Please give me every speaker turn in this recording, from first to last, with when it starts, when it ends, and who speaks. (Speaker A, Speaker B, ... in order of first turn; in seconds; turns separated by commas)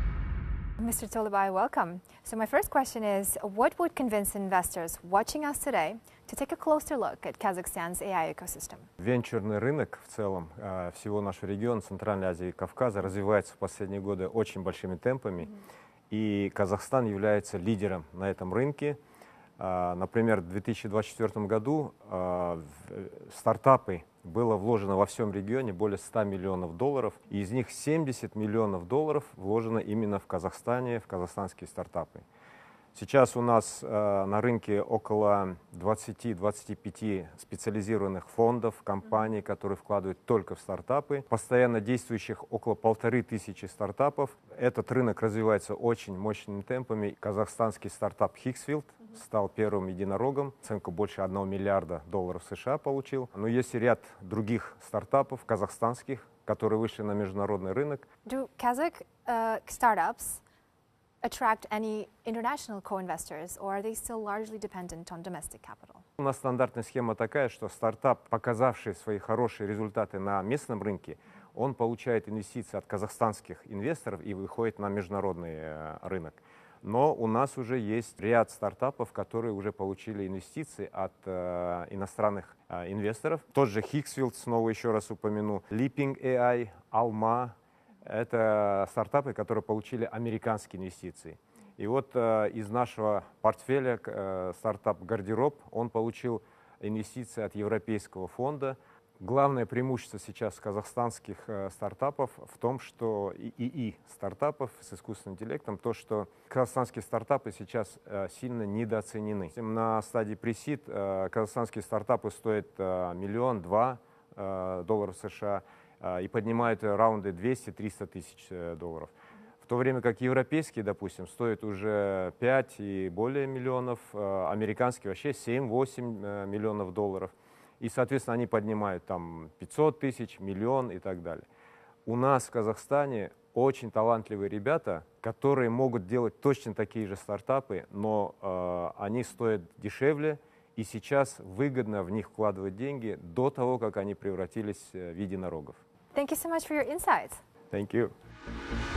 Speaker A: 0.8-8.9, Speaker B: 9.0-15.5, Speaker B: 16.1-19.0, Speaker B: 19.6-32.2, Speaker B: 32.9-58.0, Speaker A: 58.2-60.4, Speaker A: 61.2-66.0, Speaker B: 66.2-119.1, Speaker B: 119.7-131.4, Speaker B: 132.1-145.8, Speaker A: 146.1-147.4, Speaker B: 147.7-148.1